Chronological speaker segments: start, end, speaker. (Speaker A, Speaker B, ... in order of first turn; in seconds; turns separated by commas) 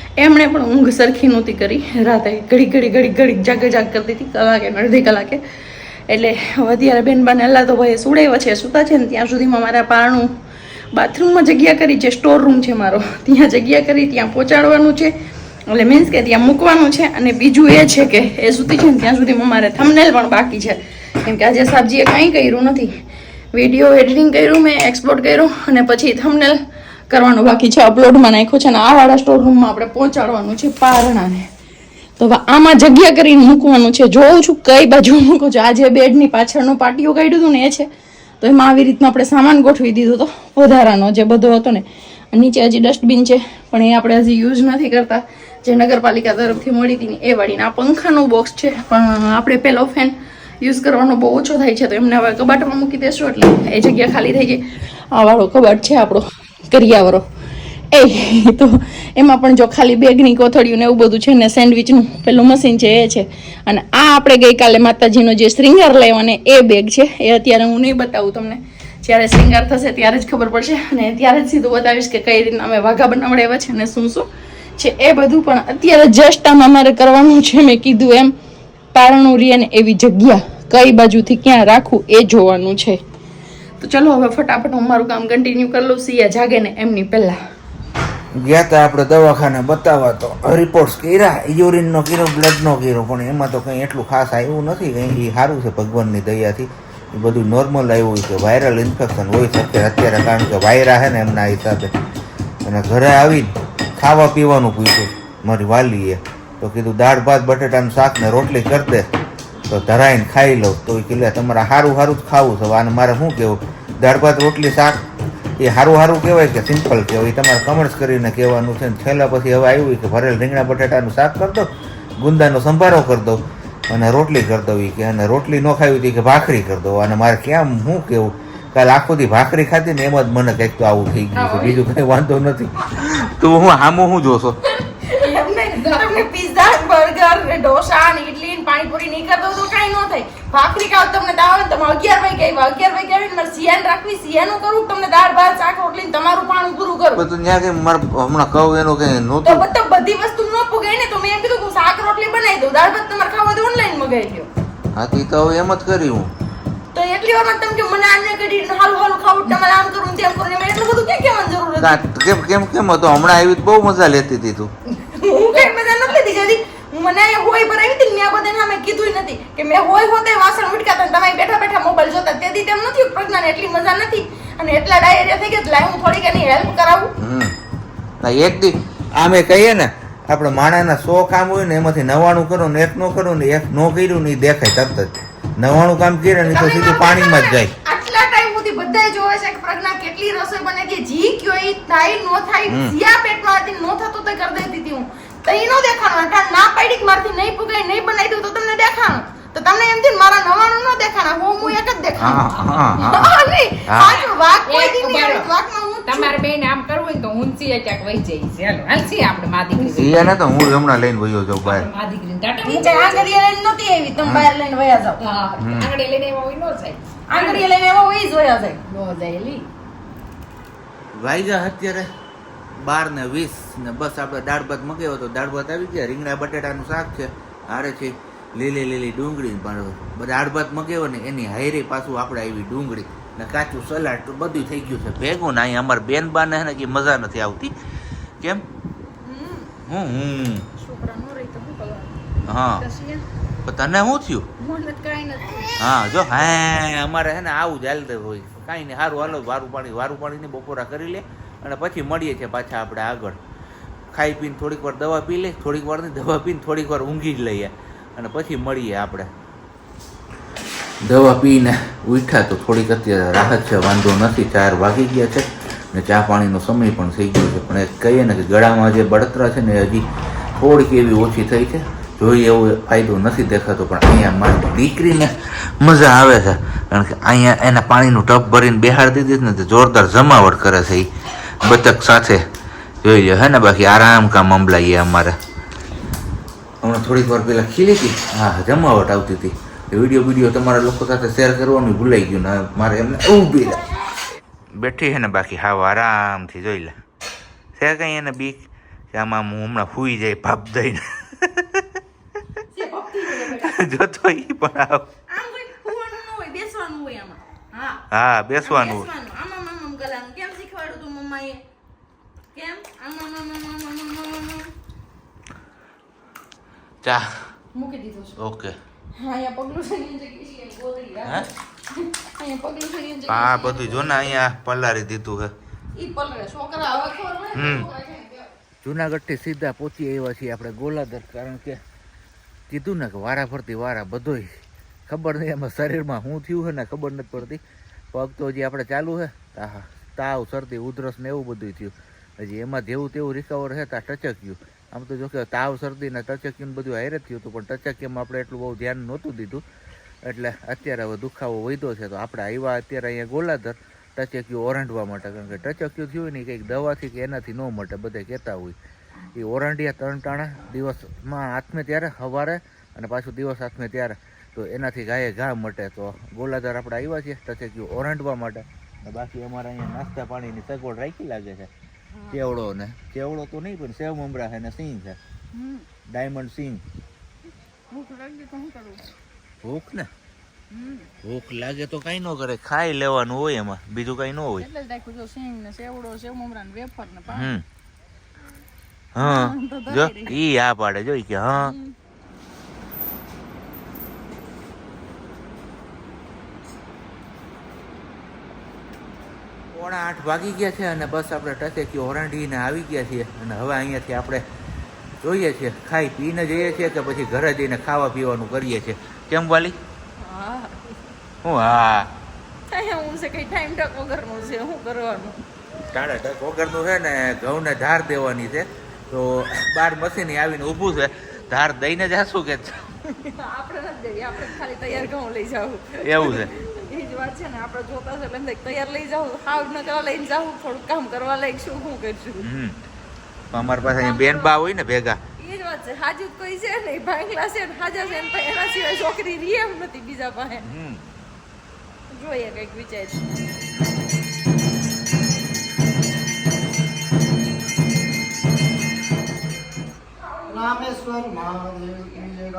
Speaker A: 0.2-5.4, Speaker A: 6.1-10.3, Speaker A: 10.9-15.1, Speaker A: 15.7-22.9, Speaker A: 23.5-26.6, Speaker A: 27.1-31.5, Speaker A: 32.2-37.9, Speaker A: 38.4-57.2, Speaker A: 57.9-78.3, Speaker A: 78.9-83.0, Speaker A: 83.8-87.4, Speaker B: 88.3-101.9, Speaker B: 102.6-109.1, Speaker B: 109.7-115.0, Speaker B: 115.6-134.6, Speaker C: 131.4-131.8, Speaker A: 134.8-147.2, Speaker B: 147.2-149.7, Speaker A: 149.4-154.5, Speaker B: 154.9-156.3, Speaker A: 156.9-162.0, Speaker B: 161.8-164.7, Speaker A: 165.0-177.1, Speaker B: 177.2-177.5, Speaker B: 178.2-187.7, Speaker A: 186.4-202.4, Speaker B: 192.7-192.9, Speaker B: 202.2-203.3, Speaker C: 202.5-203.2, Speaker A: 203.0-206.3, Speaker B: 203.9-204.2, Speaker C: 204.0-205.5, Speaker C: 206.1-210.3, Speaker B: 209.8-211.9, Speaker C: 211.6-213.3, Speaker A: 212.6-215.2, Speaker B: 214.2-214.5, Speaker C: 215.2-217.7, Speaker B: 215.6-215.9, Speaker A: 217.3-218.8, Speaker C: 218.8-219.7, Speaker B: 221.2-222.1, Speaker B: 222.8-237.7, Speaker B: 238.4-238.7, Speaker A: 239.2-239.7, Speaker B: 239.9-240.7, Speaker A: 240.8-242.2, Speaker B: 242.5-242.8, Speaker A: 242.8-243.2, Speaker B: 243.6-244.5, Speaker A: 244.6-245.8, Speaker B: 245.8-253.4, Speaker B: 254.1-259.3, Speaker B: 261.0-270.1, Speaker B: 270.6-281.1, Speaker B: 281.6-282.4, Speaker B: 283.0-285.4, Speaker B: 286.8-293.9, Speaker B: 294.8-297.0, Speaker B: 297.8-302.0, Speaker A: 302.7-303.8, Speaker B: 303.4-305.1, Speaker A: 305.3-308.0, Speaker B: 308.1-309.1, Speaker A: 308.6-311.6, Speaker A: 312.5-314.7, Speaker B: 317.0-317.4, Speaker A: 317.7-318.4, Speaker B: 318.4-318.7, Speaker A: 319.1-324.3, Speaker B: 323.3-325.5, Speaker A: 325.9-328.5, Speaker B: 327.5-327.9, Speaker B: 328.8-331.8, Speaker B: 332.7-337.6, Speaker B: 338.1-349.6, Speaker B: 350.2-358.8, Speaker B: 359.3-371.7, Speaker A: 372.1-372.4, Speaker B: 372.3-375.2, Speaker A: 375.5-375.9, Speaker B: 376.1-376.8, Speaker A: 377.9-379.1, Speaker B: 379.6-380.1, Speaker A: 380.7-381.1, Speaker B: 381.2-384.7, Speaker A: 384.6-387.5, Speaker B: 387.3-387.6, Speaker B: 389.1-391.7, Speaker A: 389.2-390.4, Speaker A: 391.6-391.9, Speaker B: 399.7-404.4, Speaker B: 405.2-409.8, Speaker A: 410.2-410.9, Speaker B: 411.4-412.1, Speaker A: 412.7-415.4, Speaker B: 415.9-422.9, Speaker A: 423.2-432.5, Speaker B: 426.0-426.5, Speaker B: 432.4-432.8, Speaker B: 433.5-435.2, Speaker A: 433.7-434.5, Speaker A: 435.4-440.6, Speaker B: 440.6-441.0, Speaker A: 442.1-443.2, Speaker A: 450.6-452.4